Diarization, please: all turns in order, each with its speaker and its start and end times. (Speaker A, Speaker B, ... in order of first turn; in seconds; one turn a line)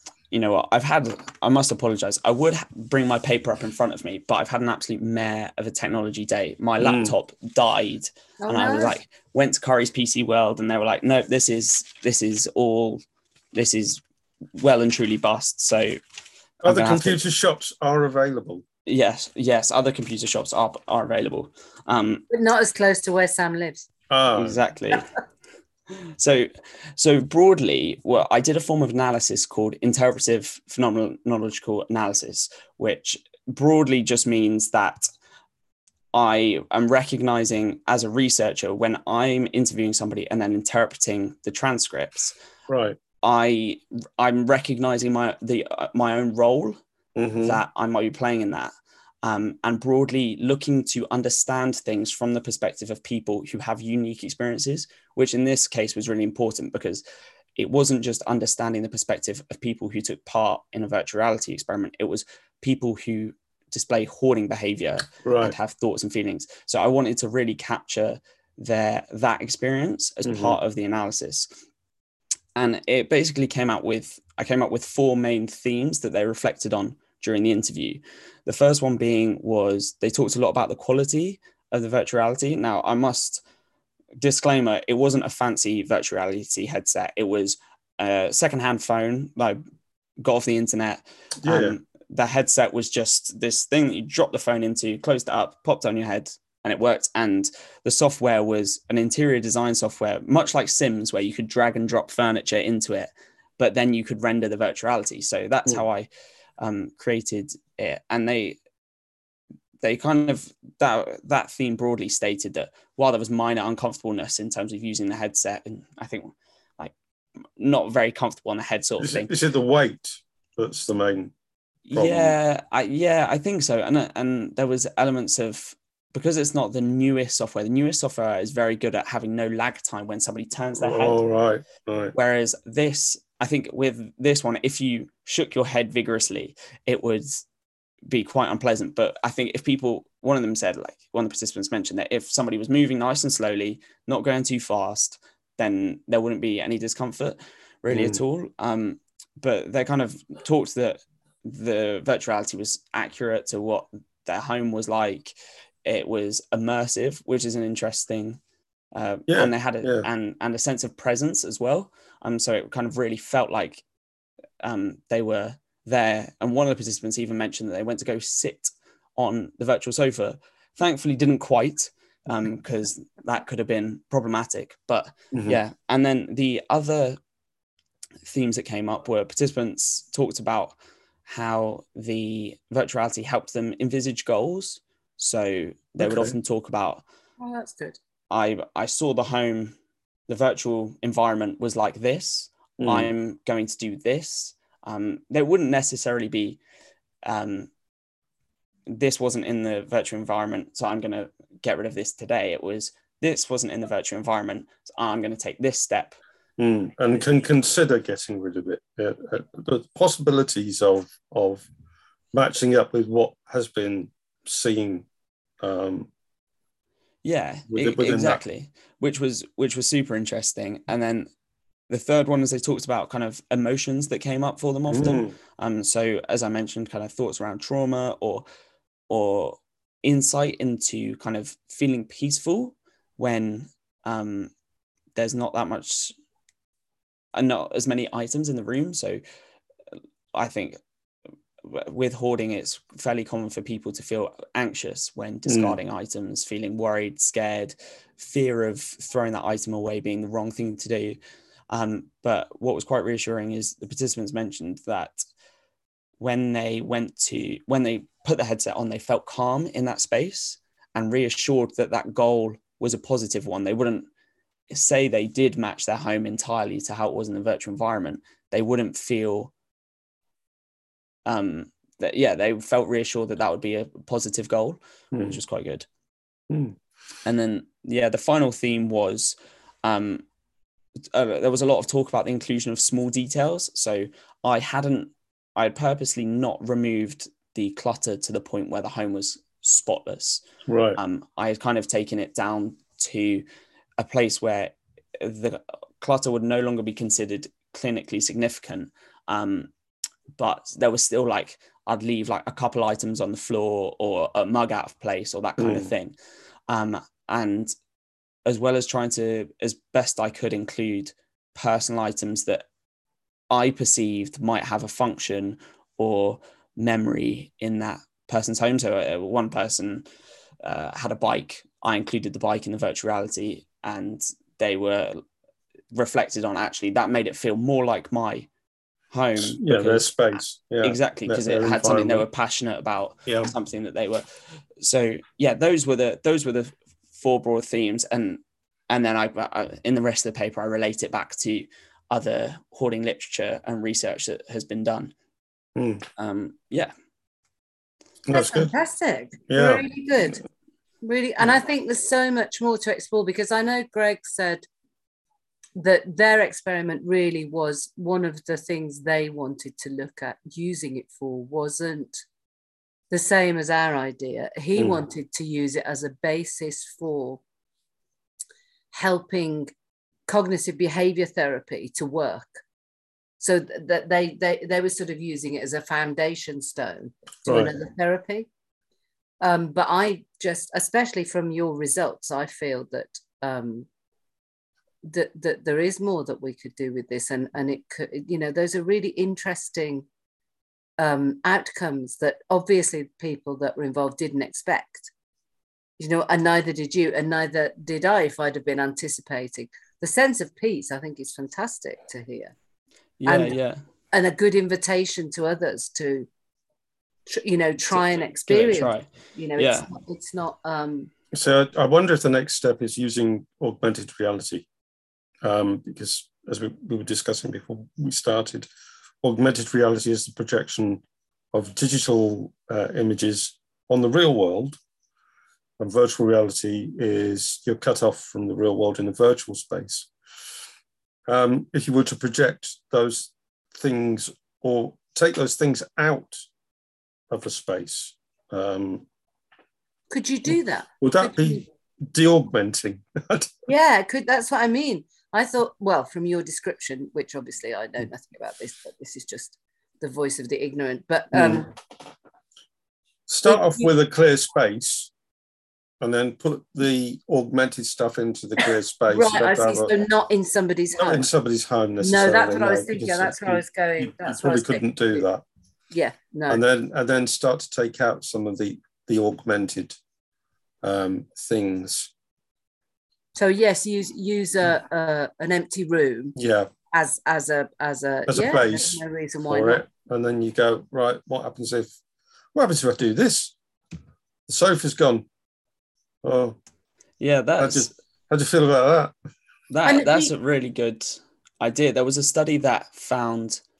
Speaker A: 0.3-13.0
Speaker B: 6.8-7.1
Speaker C: 8.4-9.0
Speaker A: 13.5-14.0
Speaker A: 14.6-16.0
Speaker A: 16.6-17.2
Speaker B: 16.6-18.6
Speaker A: 18.9-22.2
Speaker C: 22.3-23.9
Speaker B: 24.1-24.6
Speaker A: 24.4-25.1
Speaker A: 26.2-35.1
Speaker A: 36.1-42.4
Speaker B: 42.7-43.0
Speaker A: 43.2-46.8
Speaker B: 47.2-47.6
Speaker A: 47.4-48.7
Speaker A: 49.2-57.0
Speaker A: 57.6-71.5
Speaker B: 65.2-65.6
Speaker B: 70.2-70.6
Speaker A: 72.6-83.4
Speaker A: 84.2-89.6
Speaker A: 90.2-106.1
Speaker B: 91.4-91.8
Speaker A: 106.6-108.6
Speaker A: 109.8-116.9
Speaker A: 117.6-119.3
Speaker B: 119.0-121.3
Speaker A: 121.9-131.2
Speaker B: 122.0-122.4
Speaker B: 130.8-132.1
Speaker A: 132.2-137.4
Speaker A: 138.1-155.3
Speaker B: 147.9-148.2
Speaker A: 155.9-158.4
Speaker A: 158.9-163.8
Speaker B: 159.3-160.1
Speaker A: 164.6-177.2
Speaker B: 175.3-175.6
Speaker A: 178.2-187.0
Speaker B: 186.0-186.4
Speaker C: 187.4-188.0
Speaker A: 188.3-189.8
Speaker A: 190.3-196.6
Speaker B: 192.8-193.1
Speaker A: 197.2-197.7
Speaker A: 198.9-206.2
Speaker B: 206.6-211.7
Speaker B: 212.3-215.1
Speaker B: 215.6-216.1
Speaker A: 217.2-221.3
Speaker B: 217.7-218.4
Speaker A: 221.9-228.4
Speaker B: 224.9-225.3
Speaker A: 229.1-234.5
Speaker A: 235.2-236.1
Speaker A: 237.3-239.2
Speaker A: 240.3-240.8
Speaker A: 241.6-251.2
Speaker B: 245.5-245.8
Speaker A: 251.7-255.2
Speaker A: 256.2-264.1
Speaker A: 264.7-269.5
Speaker A: 271.2-275.9
Speaker B: 275.1-275.4
Speaker B: 276.5-276.8
Speaker A: 277.2-280.2
Speaker A: 281.1-290.4
Speaker B: 290.7-291.0
Speaker A: 291.0-293.4
Speaker A: 294.0-299.7
Speaker A: 300.3-306.2
Speaker B: 305.6-305.9
Speaker A: 306.7-307.7
Speaker A: 308.5-312.6
Speaker A: 313.5-320.1
Speaker A: 320.6-325.2
Speaker A: 325.9-328.5
Speaker A: 329.1-330.1
Speaker B: 329.4-332.3
Speaker A: 330.8-334.3
Speaker B: 333.3-333.5
Speaker A: 334.8-345.1
Speaker B: 345.8-346.0
Speaker A: 346.2-346.9
Speaker B: 348.3-348.7
Speaker C: 348.3-350.4
Speaker B: 349.5-349.9
Speaker C: 351.0-354.6
Speaker C: 355.8-362.2
Speaker C: 363.1-367.4
Speaker C: 368.9-369.7
Speaker C: 370.3-372.5
Speaker C: 373.4-378.5
Speaker B: 377.5-377.8
Speaker C: 379.4-383.9
Speaker C: 385.0-390.1
Speaker C: 391.0-395.1
Speaker C: 396.0-402.5
Speaker A: 403.2-403.8
Speaker C: 403.2-403.6
Speaker C: 404.1-406.3
Speaker C: 407.3-411.1
Speaker A: 408.5-409.1
Speaker A: 409.6-409.9
Speaker B: 411.3-414.7
Speaker B: 415.4-418.7
Speaker B: 419.2-424.8
Speaker B: 425.8-430.1
Speaker B: 431.3-436.4
Speaker B: 437.3-439.1
Speaker C: 440.1-441.6
Speaker B: 441.0-443.5
Speaker C: 443.7-451.7
Speaker B: 451.3-451.7
Speaker B: 453.3-455.1
Speaker C: 453.4-453.9
Speaker B: 456.0-459.9
Speaker C: 459.1-461.3
Speaker B: 461.0-465.4
Speaker C: 462.0-465.2
Speaker C: 465.9-466.6
Speaker B: 466.5-470.0
Speaker B: 470.8-472.1
Speaker C: 473.4-476.4
Speaker B: 476.4-476.7
Speaker C: 476.9-479.8
Speaker B: 478.3-481.9
Speaker B: 482.5-483.6
Speaker B: 484.5-485.2
Speaker B: 486.2-486.6
Speaker A: 487.2-487.9
Speaker B: 487.6-489.1
Speaker A: 489.7-493.6
Speaker C: 489.9-490.3